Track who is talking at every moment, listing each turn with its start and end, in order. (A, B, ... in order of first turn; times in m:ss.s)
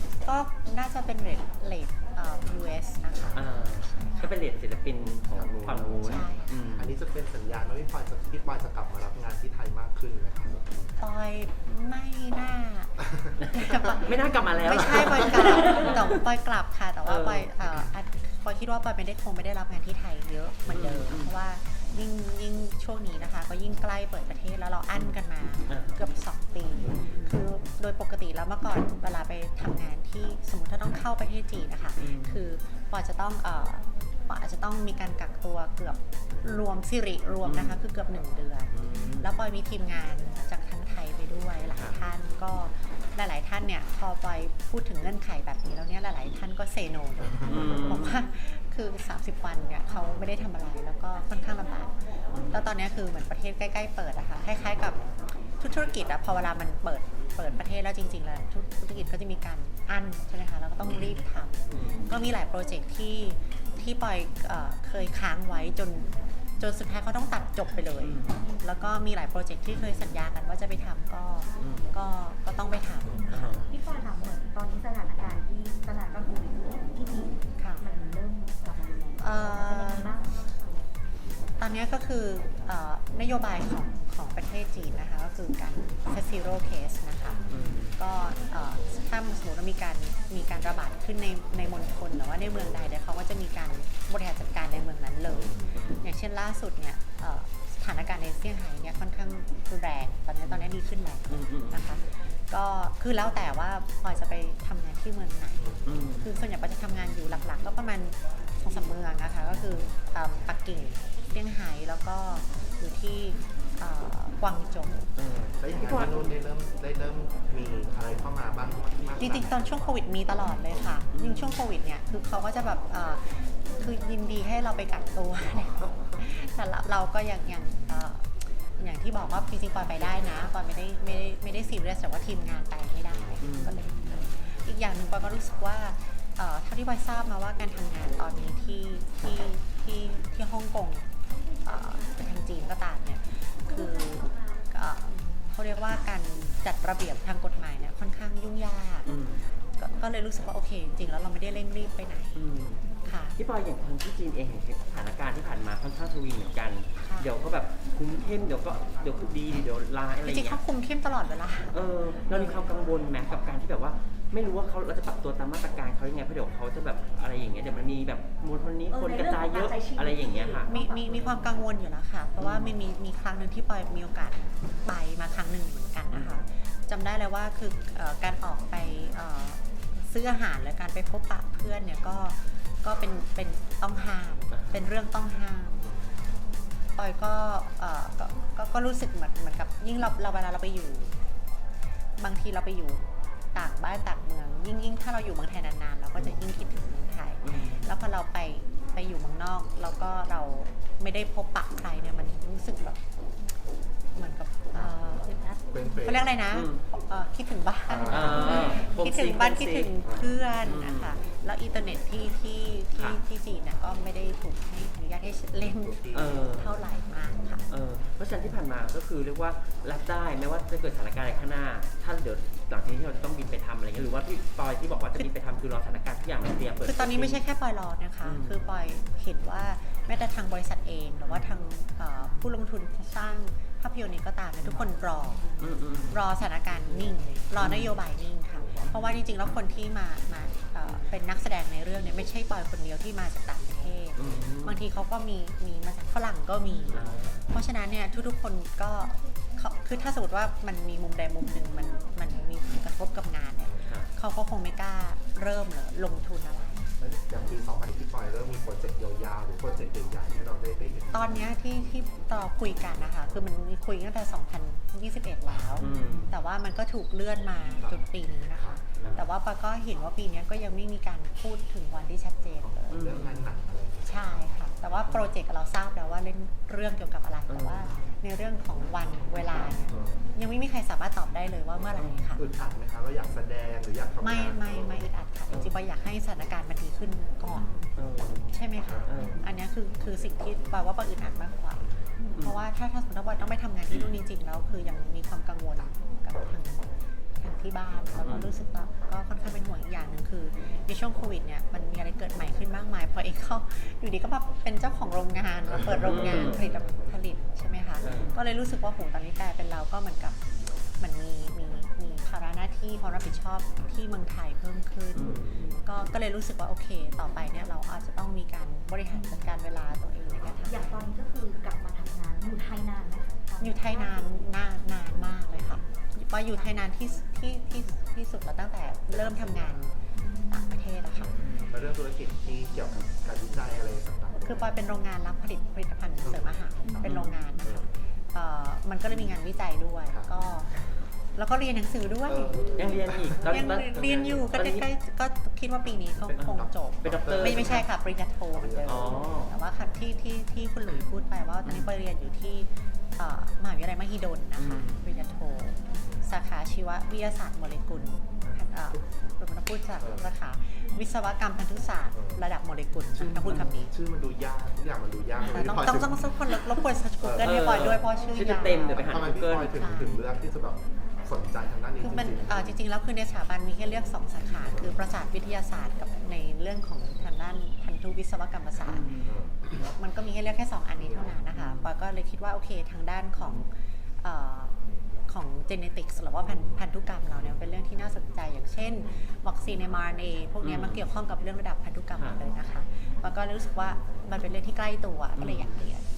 0:00.2-0:04.3 A
0:03.3-0:06.9 B
0:05.4-0:10.8 C
0:06.0-0:06.5 A
0:11.0-0:13.0 A
0:13.0-0:13.4 C
0:13.4-0:16.2 B
0:13.5-0:52.0 A
0:17.0-0:17.5 B
0:20.7-0:21.3 B
0:25.7-0:26.0 B
0:32.0-0:32.4 B
0:37.4-0:37.8 B
0:38.7-0:39.4 B
0:41.7-0:42.0 B
0:47.4-0:48.2 B
0:52.3-0:52.6 B
0:52.5-1:13.7 A
1:01.7-1:02.1 B
1:08.0-1:08.4 B
1:11.6-1:11.9 B
1:13.3-1:13.7 B
1:13.7-1:20.5 D
1:17.6-1:17.8 A
1:19.2-1:20.1 A
1:21.6-1:27.4 A
1:27.5-1:28.0 B
1:28.0-1:55.1 A
1:35.7-1:36.0 B
1:40.5-1:40.8 B
1:41.3-1:41.9 B
1:45.8-1:46.3 B
1:55.2-1:56.3 B
1:55.6-2:00.0 C
1:59.2-2:08.3 A
2:00.7-2:01.0 C
2:01.1-2:01.6 B
2:05.8-2:06.2 C
2:08.8-2:21.1 A
2:13.4-2:13.8 B
2:21.6-2:29.1 A
2:29.0-2:29.4 B
2:29.8-2:32.5 A
2:32.4-2:40.6 B
2:33.0-2:33.4 A
2:37.0-2:37.3 A
2:40.2-2:42.7 A
2:41.7-2:50.7 B
2:48.9-2:51.5 D
2:50.7-3:05.8 A
2:52.4-2:52.7 B
2:56.1-2:56.4 B
3:04.5-3:04.9 B
3:07.0-3:11.2 A
3:12.2-3:13.0 A
3:13.5-3:23.0 A
3:17.4-3:17.9 B
3:24.2-3:25.3 A
3:24.8-3:25.6 D
3:25.7-3:26.3 C
3:26.0-3:37.6 A
3:26.5-3:26.8 B
3:27.9-3:28.6 C
3:28.1-3:29.9 B
3:30.0-3:30.3 C
3:30.6-3:31.2 B
3:35.8-3:36.4 C
3:36.1-3:36.8 B
3:37.7-3:47.4 B
3:46.8-3:55.4 A
3:48.2-3:48.6 B
3:51.3-3:51.6 B
3:55.6-3:56.2 B
3:56.1-4:16.8 A
3:57.6-3:58.0 B
4:04.2-4:04.8 B
4:06.9-4:07.5 B
4:13.8-4:14.1 B
4:17.0-4:21.3 C
4:21.1-4:33.1 A
4:25.8-4:26.3 B
4:28.6-4:29.0 C
4:29.0-4:29.2 B
4:32.6-4:34.2 C
4:32.9-4:33.5 B
4:34.1-4:42.4 A
4:37.5-4:37.9 B
4:39.9-4:40.2 C
4:42.0-4:42.4 B
4:42.4-4:45.1 C
4:44.2-4:47.8 A
4:48.0-4:48.5 B
4:48.5-4:51.8 A
4:49.1-4:49.4 B
4:52.4-4:56.9 A
4:53.9-4:54.2 B
4:57.4-5:10.4 A
4:58.2-4:58.5 B
5:06.0-5:06.6 B
5:08.0-5:08.4 B
5:11.0-5:21.1 A
5:15.1-5:15.5 B
5:20.6-5:24.3 D
5:23.6-5:30.0 A
5:29.5-5:29.8 C
5:30.2-5:30.7 D
5:30.5-5:31.4 A
5:31.2-5:34.7 C
5:31.4-5:31.8 B
5:34.4-5:40.7 A
5:36.9-5:37.2 D
5:37.0-5:37.4 B
5:41.4-5:42.7 A
5:42.3-5:44.4 C
5:42.8-5:44.9 B
5:43.4-6:03.9 A
5:46.2-5:47.9 C
5:46.4-5:47.9 B
5:48.5-5:49.2 C
5:48.8-5:49.5 B
5:51.7-5:52.0 B
5:54.6-5:55.1 B
6:00.0-6:00.3 C
6:02.2-6:02.4 C
6:03.2-6:06.2 C
6:05.5-6:10.2 A
6:07.2-6:08.0 C
6:07.4-6:09.8 B
6:08.9-6:12.7 C
6:12.0-6:19.1 A
6:18.9-6:19.4 B
6:19.3-6:19.8 C
6:19.8-6:23.7 A
6:21.0-6:21.3 C
6:21.5-6:21.9 B
6:24.2-6:24.7 A
6:25.3-6:36.0 A
6:30.6-6:31.0 B
6:35.4-6:35.8 B